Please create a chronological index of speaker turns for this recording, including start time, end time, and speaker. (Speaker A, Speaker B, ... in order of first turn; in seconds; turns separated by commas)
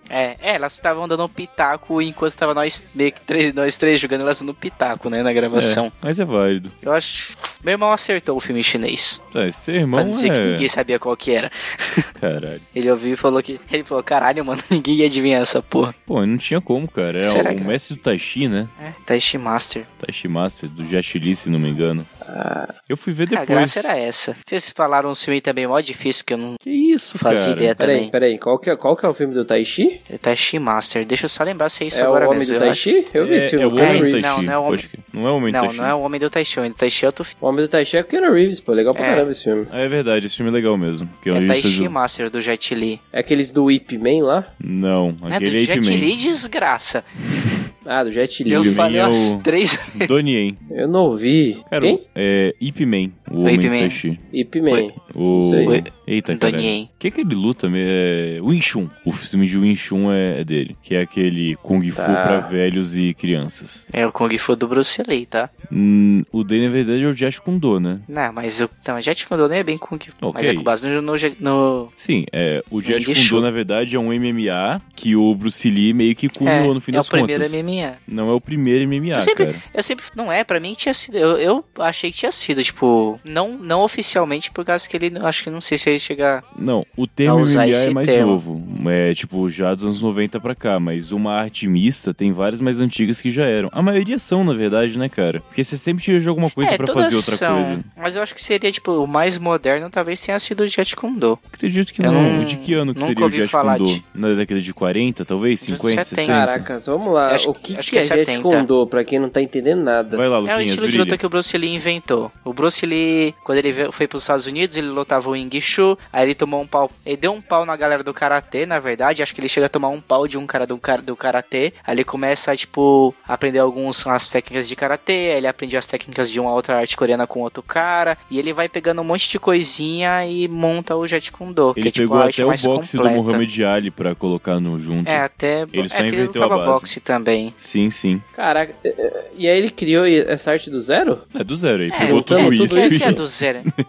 Speaker A: 0.1-5.9, Speaker B: 5.5-6.8, Speaker A: 6.8-9.2, Speaker B: 9.3-10.7, Speaker A: 9.9-12.1, Speaker B: 12.2-12.6, Speaker A: 12.7-15.9, Speaker B: 16.1-18.7, Speaker A: 17.2-17.7, Speaker A: 18.8-19.9, Speaker B: 20.0-22.1, Speaker C: 22.2-22.7, Speaker B: 22.9-23.9, Speaker A: 23.3-26.6, Speaker B: 26.6-27.8, Speaker A: 27.1-28.1, Speaker C: 27.8-30.0, Speaker A: 30.1-32.8, Speaker C: 31.9-34.2, Speaker B: 33.2-35.9, Speaker A: 33.8-34.9, Speaker A: 35.5-37.3, Speaker C: 37.4-39.7, Speaker A: 38.9-39.3, Speaker B: 39.7-41.9, Speaker A: 41.3-43.0, Speaker C: 43.1-44.5, Speaker B: 44.6-46.1, Speaker A: 45.3-47.0, Speaker B: 47.3-47.6, Speaker C: 47.8-48.8, Speaker A: 48.5-50.1, Speaker B: 48.5-50.6, Speaker C: 50.7-52.0, Speaker B: 51.7-54.2, Speaker A: 53.4-54.0, Speaker C: 54.3-55.8, Speaker B: 55.0-63.8, Speaker A: 55.6-56.9, Speaker C: 62.0-62.5, Speaker A: 63.9-65.5, Speaker B: 65.7-68.1, Speaker A: 68.1-71.9, Speaker B: 70.2-70.7, Speaker B: 72.0-79.6, Speaker A: 72.8-73.5, Speaker A: 76.4-78.0, Speaker A: 79.1-86.4, Speaker B: 86.5-97.8, Speaker A: 87.2-88.4, Speaker A: 96.6-101.4, Speaker B: 101.5-106.7, Speaker A: 102.0-104.0, Speaker A: 105.6-106.4, Speaker C: 106.2-110.2, Speaker A: 107.3-108.7, Speaker B: 110.1-111.2, Speaker A: 110.4-133.4, Speaker B: 131.8-136.9, Speaker A: 135.0-137.5, Speaker B: 137.6-138.2, Speaker C: 138.3-141.2, Speaker B: 141.3-143.7, Speaker A: 141.9-143.7, Speaker C: 142.0-143.2